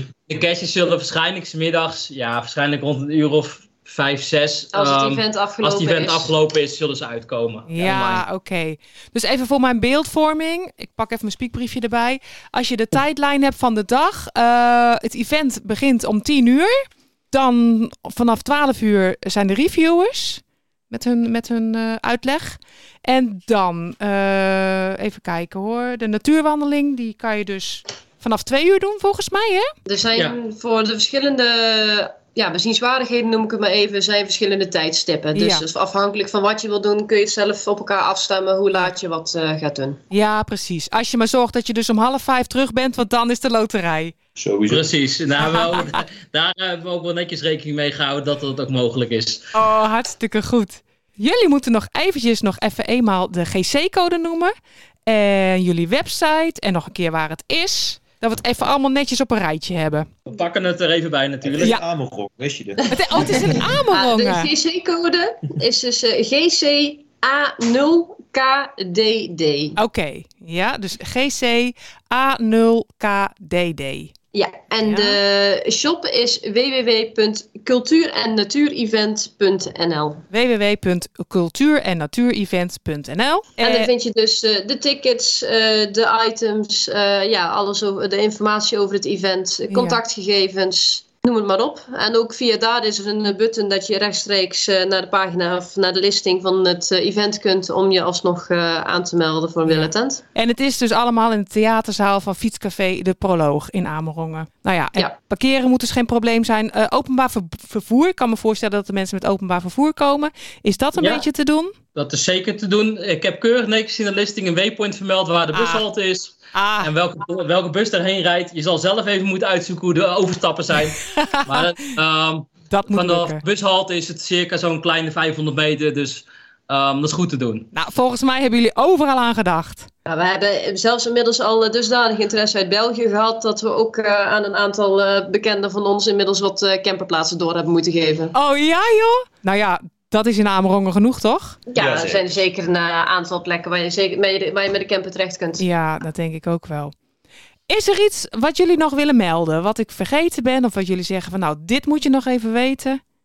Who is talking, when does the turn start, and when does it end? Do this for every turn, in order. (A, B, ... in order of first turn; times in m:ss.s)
0:00.3-0:08.2 A
0:04.7-0:06.3 B
0:07.7-0:29.7 C
0:29.9-0:40.0 B
0:35.4-0:35.6 C
0:40.1-0:44.2 C
0:44.4-0:44.9 D
0:44.7-0:49.5 A
0:45.4-0:46.0 C
0:49.6-0:54.5 C
0:55.1-1:00.1 C
1:00.3-1:01.8 A
1:01.4-1:03.5 D
1:02.8-1:09.8 B
1:02.9-1:04.5 C
1:09.8-1:14.1 C
1:14.3-1:20.2 B
1:14.8-1:15.2 C
1:20.3-1:23.9 C
1:23.6-1:40.2 B
1:29.7-1:30.0 C
1:39.7-1:51.7 C
1:51.0-1:51.2 A
1:52.0-2:07.7 A
1:55.5-1:55.8 C
1:56.5-1:56.9 C
2:01.2-2:01.7 C
2:02.7-2:03.4 C
2:07.7-2:09.9 C
2:10.1-2:18.4 B
2:18.3-2:21.6 C
2:21.7-2:25.6 B
2:21.8-2:22.4 D
2:25.6-2:26.9 C
2:27.7-2:33.0 C